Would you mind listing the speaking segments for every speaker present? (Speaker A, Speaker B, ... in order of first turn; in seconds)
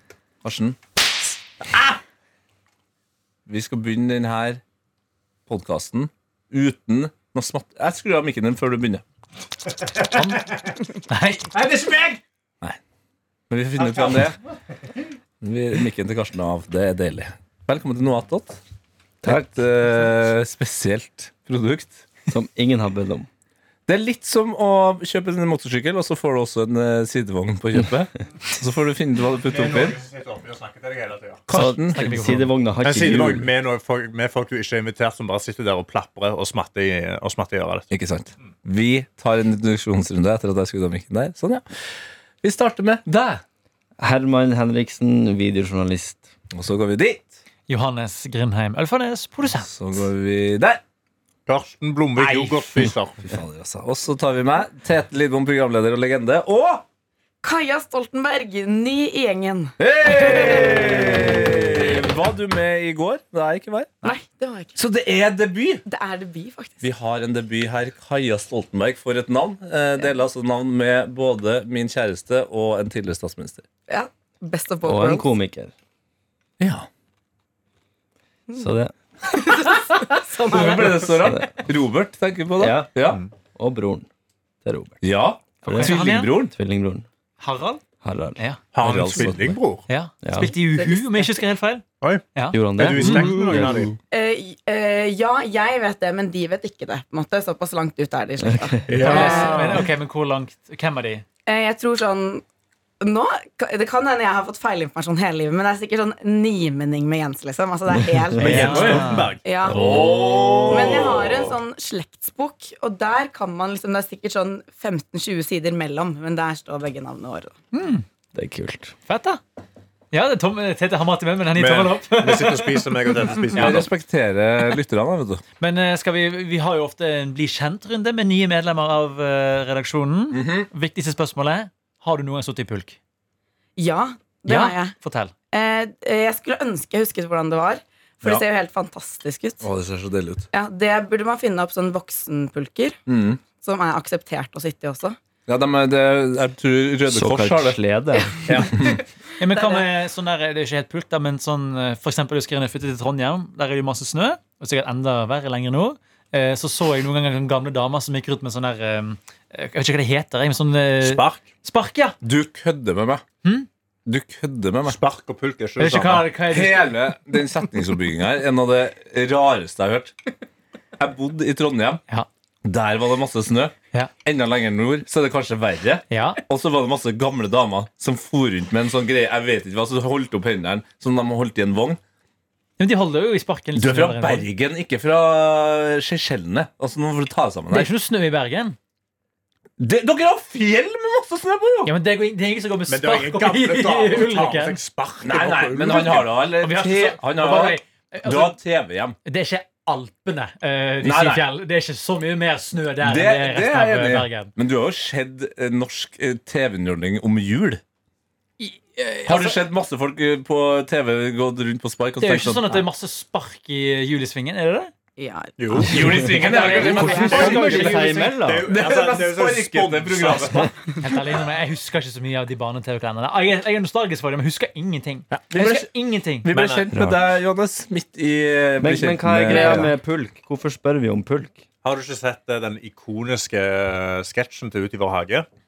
Speaker A: 0.4-0.8, 3.5-4.6, 5.5-9.0, 13.5-14.4, 15.4-18.6, 19.2-22.1, 23.9-30.0, 31.5-33.5, 37.9-41.6, 42.4-43.4, 46.5-47.3, 49.6-50.8, 53.2-56.8, 59.8-64.2, 64.8-65.8, 66.8-73.7, 76.6-76.9, 80.4-83.2, 85.0-86.5, 93.0-93.3, 108.7-109.1, 109.7-111.3, 123.5-125.4, 130.3-130.7, 139.6-140.5, 143.1-143.4, 145.5-147.8, 148.4-149.0, 162.2-163.3, 164.1-165.0, 166.5-170.2, 171.0-172.0, 172.7-182.0, 183.8-187.9, 189.8-191.9, 195.2-199.2, 201.0-201.4, 203.0-207.8, 209.2-212.9, 215.8-220.7, 225.4-225.9, 226.4-229.9
Speaker B: 10.0-10.4, 11.1-11.8, 31.5-32.5, 47.7-49.7, 52.2-52.5, 85.7-86.4, 87.4-87.8, 88.4-88.7, 89.9-91.8, 92.3-93.2, 99.0-101.2, 108.4-109.3, 117.7-118.0, 119.1-119.4, 120.1-123.8, 125.6-133.0, 134.5-135.3, 149.4-162.2, 165.8-166.9, 176.1-176.4, 182.8-184.5, 187.7-188.8, 191.8-194.8, 196.6-198.6, 199.3-204.5, 208.6-209.6, 212.2-214.9, 216.4-218.4, 221.0-226.8
Speaker C: 11.8-12.2, 13.8-14.2, 29.4-31.4, 32.8-37.9, 51.5-53.2, 88.7-89.8, 92.0-93.9, 98.9-99.9, 108.4-111.5, 121.5-123.9, 161.0-161.5, 164.9-166.3, 192.9-196.3, 215.6-216.7, 217.4-220.7, 226.5-226.8, 229.5-229.8, 231.8-235.5
Speaker D: 19.2-19.6, 22.3-23.3, 31.5-33.5, 44.0-46.3, 74.8-75.7, 78.6-78.9, 81.2-81.6, 82.6-82.9, 83.5-84.1, 84.6-85.1, 85.6-87.1, 88.0-89.6, 90.2-90.5, 92.5-94.0, 98.5-99.3, 108.3-109.0, 118.3-119.0, 147.1-148.4, 216.9-218.7, 226.9-227.2, 228.8-231.7
Speaker E: 57.4-61.1, 64.0-64.8, 65.8-66.9, 73.9-75.3, 79.3-81.1, 90.8-91.1, 94.1-99.7, 101.5-102.4, 103.0-108.9, 109.4-109.9, 110.6-117.5, 133.8-134.9, 135.5-139.7, 140.5-143.0, 143.6-145.2, 148.5-149.8, 215.2-217.5